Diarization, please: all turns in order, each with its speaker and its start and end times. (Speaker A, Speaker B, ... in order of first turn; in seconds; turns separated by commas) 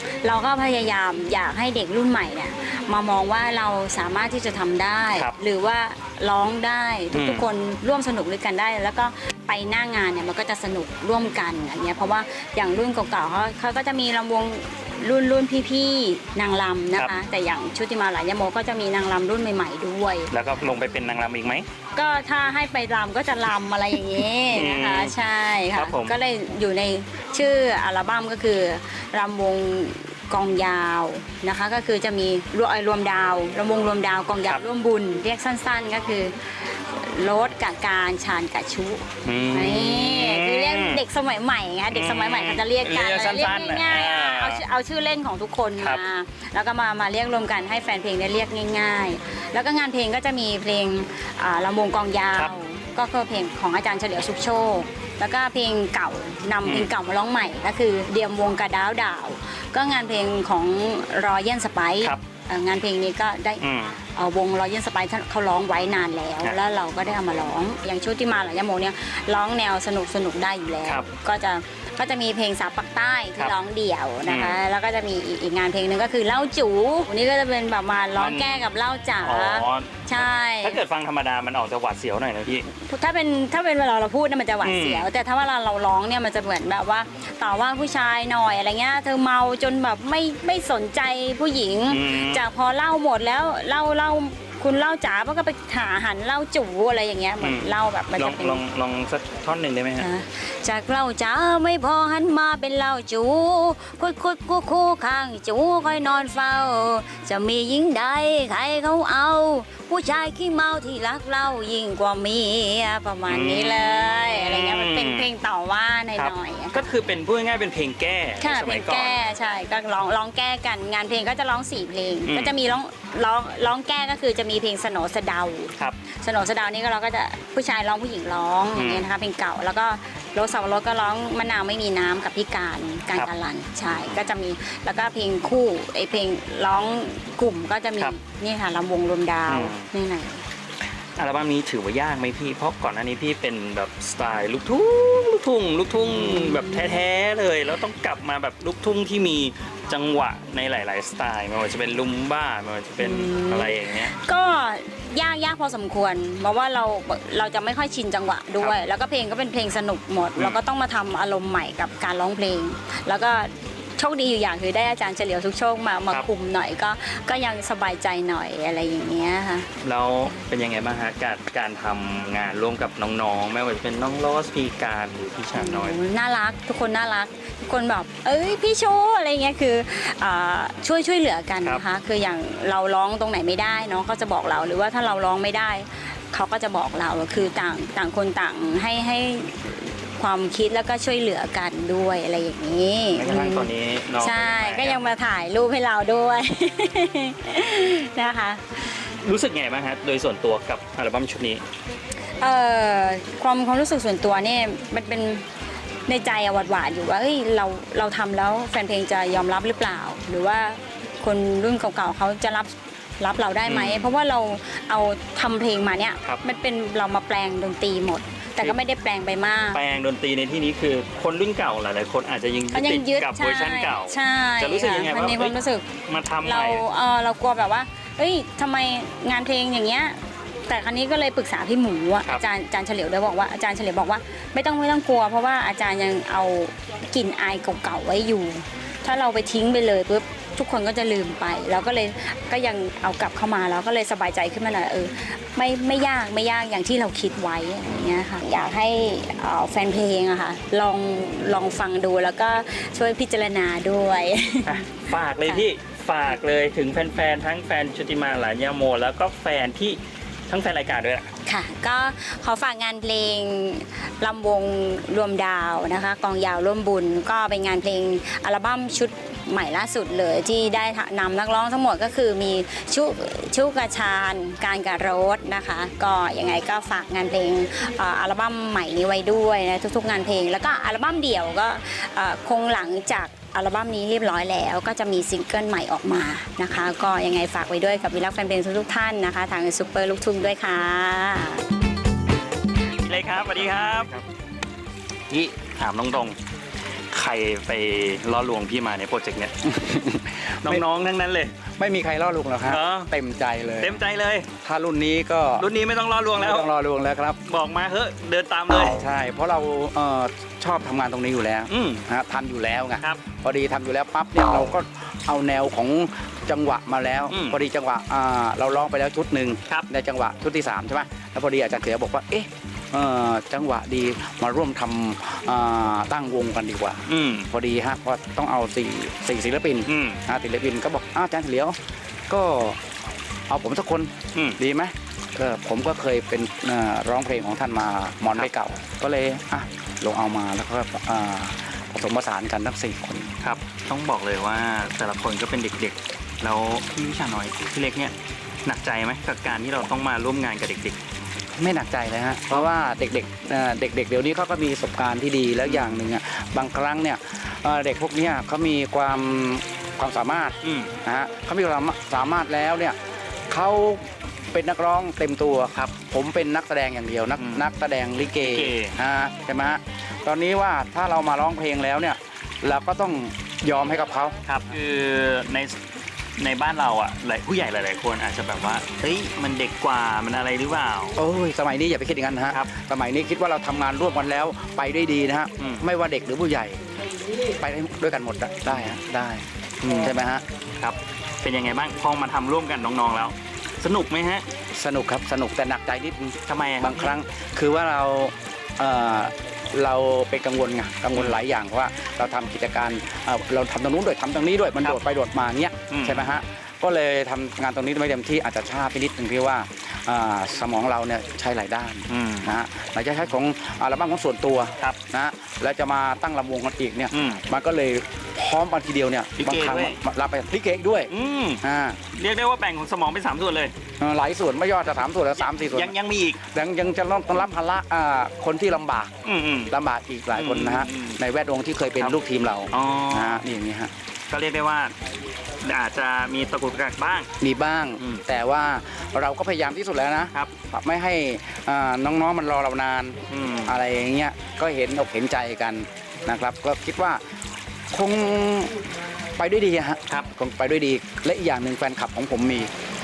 Speaker A: 0.2-20.3, Speaker B: 7.1-7.5, Speaker B: 20.3-21.7, Speaker A: 21.9-63.6, Speaker B: 24.5-25.2, Speaker B: 25.7-26.1, Speaker B: 39.2-41.0, Speaker B: 41.9-44.6, Speaker B: 56.6-56.9, Speaker B: 63.6-64.0, Speaker A: 64.2-80.8, Speaker B: 74.3-74.6, Speaker B: 78.2-78.7, Speaker B: 79.2-82.7, Speaker A: 82.7-98.6, Speaker B: 84.6-85.1, Speaker B: 91.9-92.4, Speaker B: 97.4-100.1, Speaker A: 100.0-116.9, Speaker B: 113.3-115.3, Speaker B: 116.2-119.2, Speaker A: 118.4-140.4, Speaker B: 122.3-122.6, Speaker B: 128.8-129.1, Speaker B: 139.5-139.9, Speaker B: 141.2-154.1, Speaker A: 146.0-147.0, Speaker A: 153.0-169.7, Speaker B: 169.8-176.0, Speaker A: 175.6-199.0, Speaker B: 193.2-195.0, Speaker B: 199.2-201.6, Speaker A: 202.4-205.4, Speaker A: 206.1-219.8, Speaker B: 213.7-214.1, Speaker B: 219.7-225.5, Speaker A: 222.7-225.9, Speaker B: 226.1-226.8, Speaker A: 226.4-230.2, Speaker A: 230.7-254.8, Speaker B: 254.7-261.3, Speaker A: 261.5-291.6, Speaker B: 293.0-294.1, Speaker C: 293.5-294.2, Speaker B: 295.3-296.4, Speaker B: 297.1-299.5, Speaker C: 299.6-300.8, Speaker B: 300.6-301.6, Speaker C: 301.8-304.0, Speaker B: 302.7-303.1, Speaker B: 303.8-304.5, Speaker C: 304.6-305.7, Speaker B: 305.6-306.7, Speaker C: 306.4-307.4, Speaker B: 307.5-309.0, Speaker C: 308.9-331.8, Speaker B: 311.7-312.0, Speaker B: 317.3-317.6, Speaker B: 327.1-327.5, Speaker B: 329.9-330.2, Speaker C: 332.3-332.8, Speaker C: 333.5-343.3, Speaker B: 343.4-348.1, Speaker B: 348.7-351.0, Speaker C: 351.6-363.0, Speaker B: 355.7-356.0, Speaker B: 360.6-360.9, Speaker C: 363.5-374.4, Speaker B: 367.4-367.6, Speaker B: 368.4-369.0, Speaker B: 374.5-375.8, Speaker B: 376.4-381.2, Speaker C: 381.2-386.8, Speaker B: 385.6-385.9, Speaker C: 387.5-390.4, Speaker B: 389.8-390.1, Speaker B: 390.8-394.4, Speaker C: 394.8-421.1, Speaker B: 396.5-397.1, Speaker B: 405.9-406.3, Speaker B: 412.1-412.5, Speaker B: 417.1-417.4, Speaker B: 419.4-420.0, Speaker B: 421.1-421.6, Speaker C: 421.6-422.0, Speaker B: 422.1-423.7, Speaker C: 424.0-425.9, Speaker B: 425.6-426.4, Speaker C: 426.5-429.1, Speaker B: 429.2-429.7, Speaker C: 429.7-433.9, Speaker B: 430.3-431.2, Speaker B: 432.7-433.4, Speaker B: 434.3-434.9, Speaker B: 435.6-437.3, Speaker C: 437.4-447.2, Speaker B: 443.3-443.8, Speaker C: 447.9-448.8, Speaker C: 449.4-452.7